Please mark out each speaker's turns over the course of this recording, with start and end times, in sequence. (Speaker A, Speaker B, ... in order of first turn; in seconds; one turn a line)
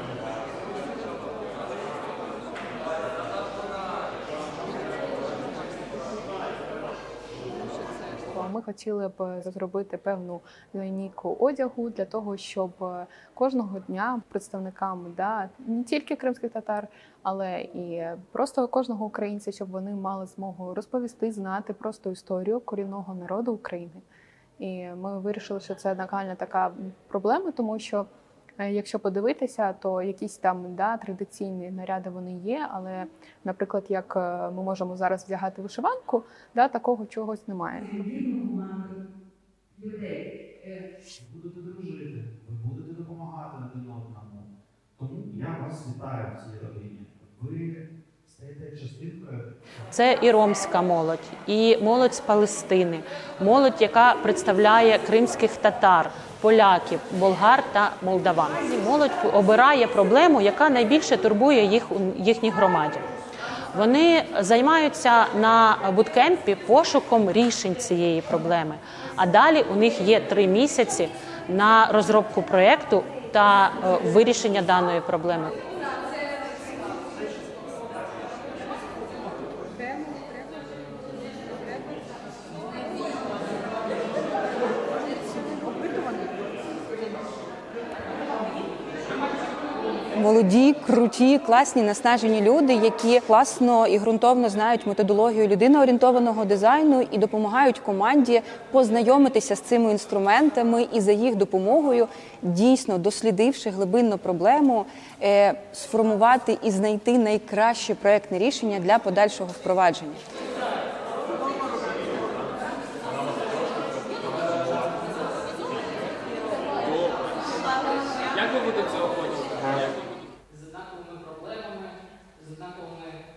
Speaker A: 8.3-24.0
Speaker A: 24.6-28.1
Speaker A: 28.6-37.9
Speaker B: 37.7-39.0
Speaker B: 39.8-40.8
Speaker C: 41.1-49.5
Speaker D: 49.9-63.0
Speaker D: 63.7-75.6
Speaker B: 90.1-110.2
Speaker E: 118.3-119.3
Speaker E: 120.5-123.2